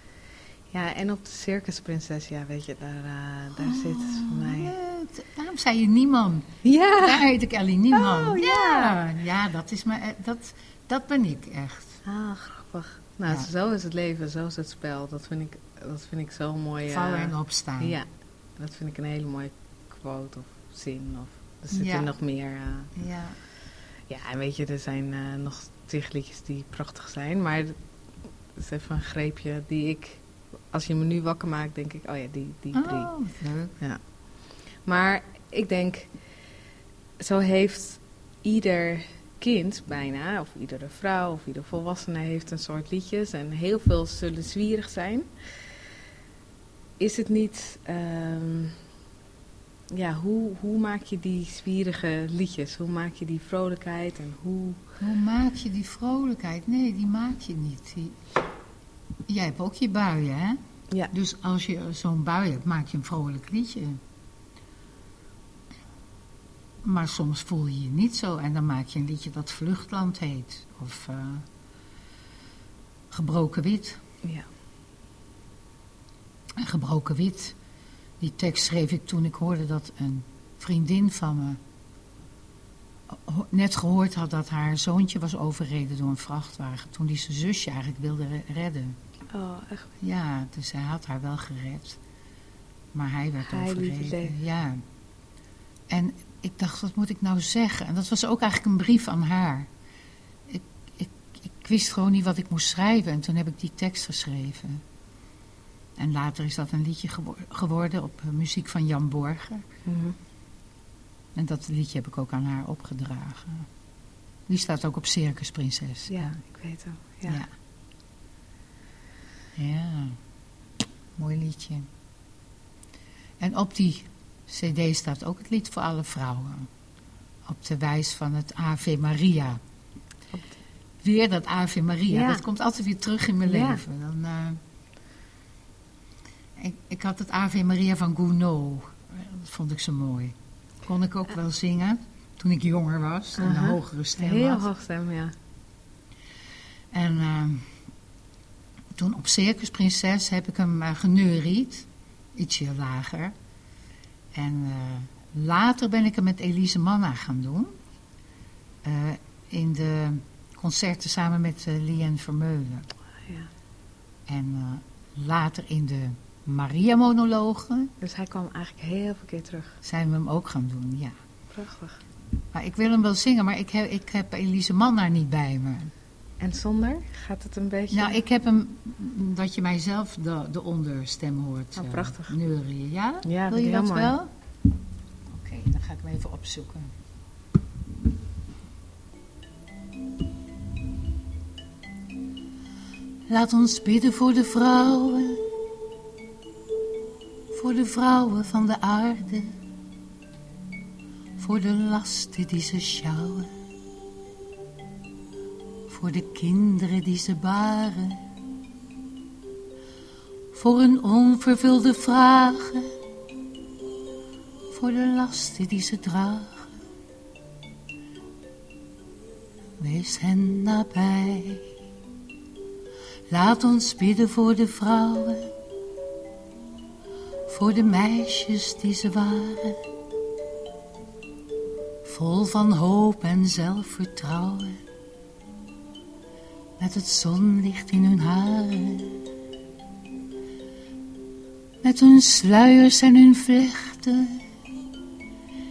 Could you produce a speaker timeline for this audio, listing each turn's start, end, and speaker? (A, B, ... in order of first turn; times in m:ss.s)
0:00.7-0:04.7 A
0:03.5-0:12.0 B
0:06.6-0:07.2 A
0:07.9-0:09.0 A
0:12.0-0:22.9 A
0:16.9-0:18.0 B
0:21.7-0:22.2 B
0:22.9-0:23.4 B
0:24.1-0:27.8 A
0:28.5-0:33.1 A
0:32.7-0:33.8 B
0:33.8-0:36.2 A
0:37.2-0:45.3 A
0:47.0-0:48.8 A
0:49.9-0:54.8 A
0:55.0-0:58.2 B
0:59.3-1:00.6 B
1:01.1-1:04.0 B
1:06.8-1:11.5 B
1:13.1-1:14.0 B
1:16.6-1:17.6 B
1:18.2-1:21.6 B
1:23.1-1:29.0 B
1:29.3-1:29.9 A
1:30.0-1:32.0 B
1:32.9-1:34.8 B
1:33.4-1:34.3 A
1:35.9-1:39.7 B
1:40.5-1:44.8 B
1:46.0-1:49.6 B
1:49.9-1:50.2 A
1:51.4-1:53.7 B
1:54.5-1:56.3 B
1:56.1-1:57.4 A
1:59.6-2:00.2 B
2:01.2-2:01.9 B
2:03.4-2:06.7 B
2:07.5-2:09.6 B
2:10.3-2:10.6 A
2:11.0-2:14.6 B
2:12.1-2:12.4 A
2:13.4-2:13.8 A
2:16.6-2:24.7 B
2:23.4-2:25.3 A
2:26.9-2:27.7 B
2:29.0-2:33.3 B
2:34.3-2:37.8 B
2:38.8-2:42.9 B
2:43.2-2:43.5 A
2:44.3-2:47.9 B
2:48.0-2:49.8 A
2:49.8-2:51.2 B
2:51.5-2:52.0 A
2:52.5-2:55.9 B
2:56.4-2:58.2 A
2:57.9-3:04.3 B
3:01.8-3:02.4 A
3:03.2-3:04.1 A
3:05.3-3:06.9 B
3:13.3-3:15.4 B
3:17.5-3:19.6 B
3:21.4-3:23.5 B
3:25.9-3:28.2 B
3:30.5-3:33.0 B
3:34.7-3:36.7 B
3:39.8-3:41.7 B
3:43.3-3:45.5 B
3:47.5-3:49.8 B
3:52.0-3:54.8 B
3:56.8-3:59.2 B
4:01.8-4:04.4 B